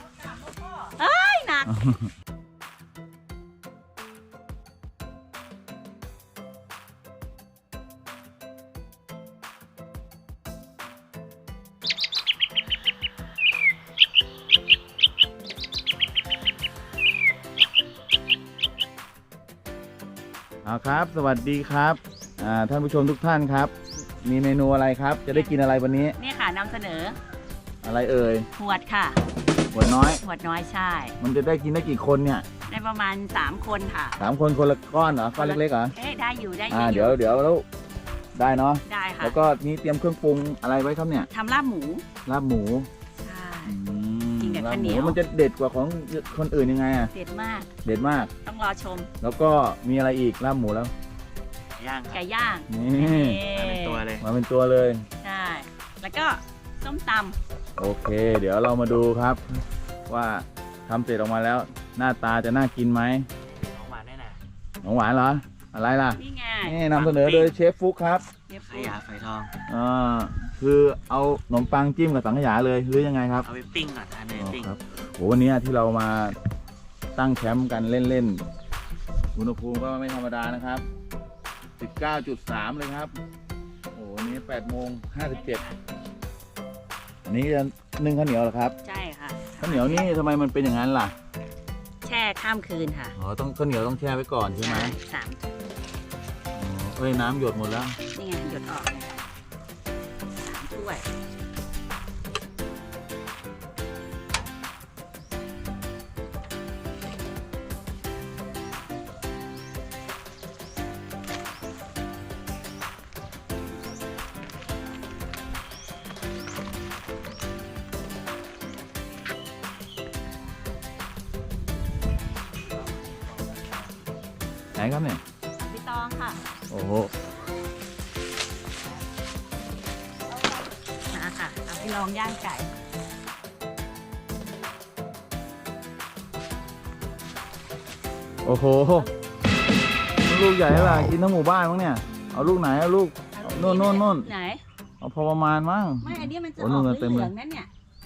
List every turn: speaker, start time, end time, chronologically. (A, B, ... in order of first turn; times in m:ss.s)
0:01.0-0:01.7 A
0:01.7-0:02.1 B
0:20.6-0:26.2 B
0:26.2-0:27.2 A
0:27.8-0:28.5 B
0:28.6-0:29.2 A
0:29.7-0:30.2 B
0:30.2-0:31.2 A
0:31.2-0:32.5 B
0:32.7-0:34.2 A
0:34.2-0:35.9 B
0:35.4-0:37.2 A
0:36.7-0:37.6 B
0:38.4-0:41.3 B
0:38.8-0:39.4 A
0:41.3-0:42.1 A
0:42.3-0:42.9 B
0:43.2-0:43.8 A
0:43.6-0:47.1 B
0:44.4-0:45.2 A
0:47.1-0:47.7 A
0:47.8-0:48.3 B
0:48.4-0:49.1 A
0:49.2-0:50.9 B
0:51.8-0:52.2 C
0:52.1-0:54.0 A
0:52.7-0:53.4 B
0:53.6-0:54.2 C
0:54.2-0:55.0 B
0:55.2-0:57.4 A
0:57.8-0:59.4 B
1:00.1-1:03.3 B
1:03.4-1:04.4 C
1:04.8-1:08.2 B
1:06.2-1:07.0 A
1:07.0-1:07.5 C
1:08.5-1:09.0 A
1:08.7-1:09.5 C
1:09.7-1:13.5 B
1:13.4-1:14.7 C
1:14.4-1:16.4 B
1:17.2-1:18.4 B
1:19.4-1:20.8 B
1:21.8-1:23.1 B
1:24.0-1:25.6 B
1:25.2-1:25.8 A
1:27.2-1:28.8 B
1:28.8-1:30.1 A
1:29.6-1:31.1 B
1:32.0-1:33.2 A
1:33.2-1:35.0 B
1:34.6-1:35.5 A
1:36.6-1:38.0 B
1:38.1-1:39.2 A
1:40.4-1:41.1 A
2:04.8-2:05.2 B
2:05.6-2:06.4 A
2:06.7-2:07.1 B
2:11.1-2:12.7 A
2:18.4-2:19.1 B
2:20.1-2:24.3 B
2:22.1-2:22.5 A
2:23.3-2:24.6 A
2:25.0-2:27.3 B
2:26.0-2:27.7 A